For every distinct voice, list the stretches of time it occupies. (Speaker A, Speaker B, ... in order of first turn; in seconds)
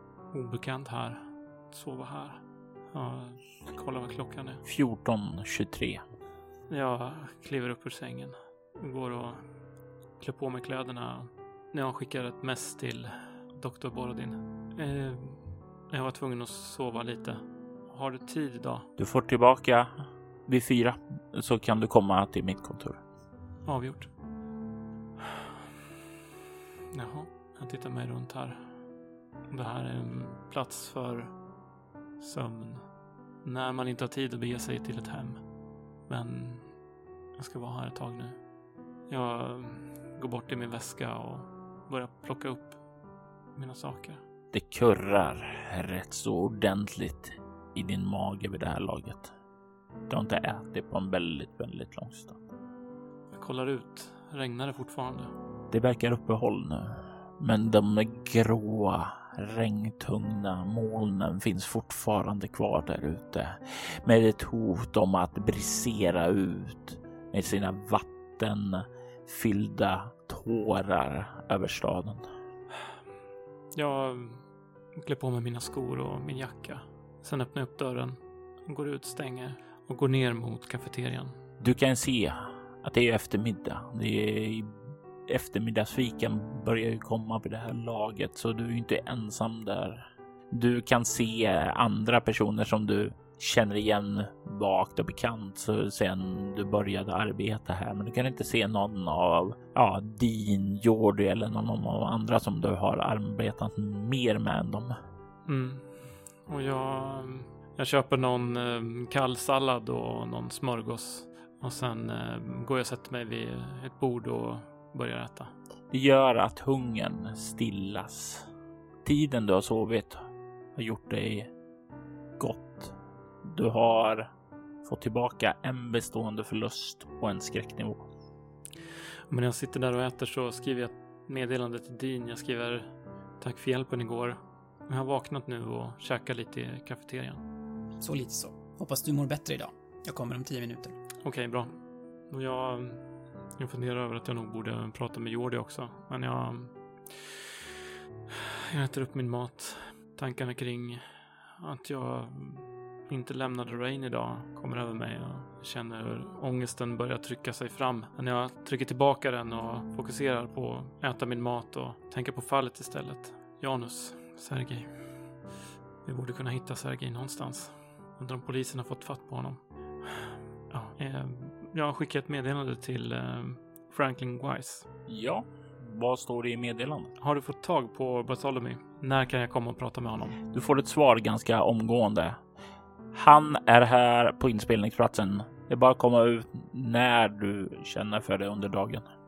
Speaker A: 0.3-4.6, 6.7-9.5, 10.2-18.9, 23.6-24.1, 26.9-28.8, 29.5-31.4, 32.2-32.9, 33.4-35.5, 36.1-36.8, 37.4-38.4, 39.1-42.8, 43.5-44.2, 53.3-55.3, 73.7-81.3, 105.5-115.5, 129.3-137.4, 141.2-141.8, 142.3-143.0, 143.6-147.4, 148.3-151.0, 151.6-165.1, 166.0-174.9, 177.2-180.4
Speaker B: 4.7-6.0, 19.0-19.9, 20.5-23.0, 44.5-49.3, 50.1-52.5, 55.7-72.3, 81.6-104.9, 115.9-118.5, 119.0-120.2, 120.8-121.5, 122.4-124.3, 124.8-128.1, 175.1-177.1, 180.5-182.4, 183.1-189.1
Speaker C: 138.0-140.9